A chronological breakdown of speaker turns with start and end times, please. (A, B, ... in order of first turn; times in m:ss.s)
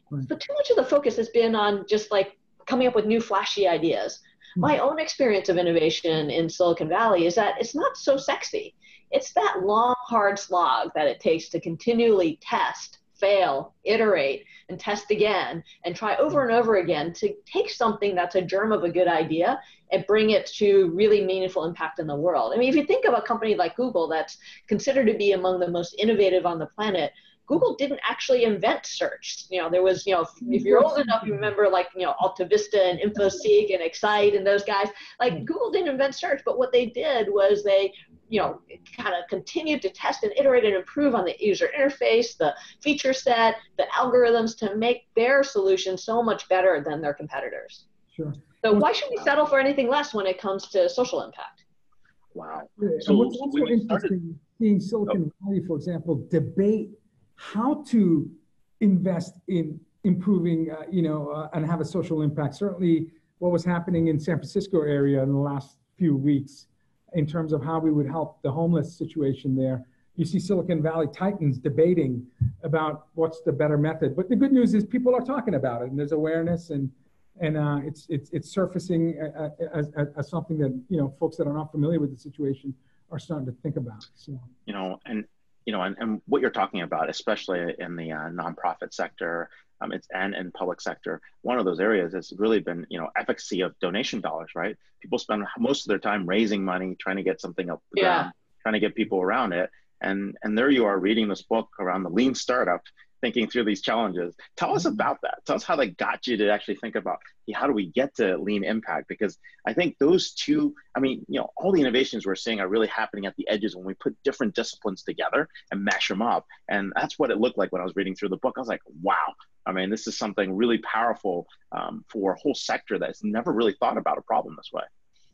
0:00.3-0:47.8 A
0:30.5-0:31.3 B
0:48.1-0:48.9 B
0:48.6-0:51.6 A
0:52.3-0:54.1 C
0:52.8-1:24.5 B
1:24.6-2:04.9 C
1:38.0-1:38.3 A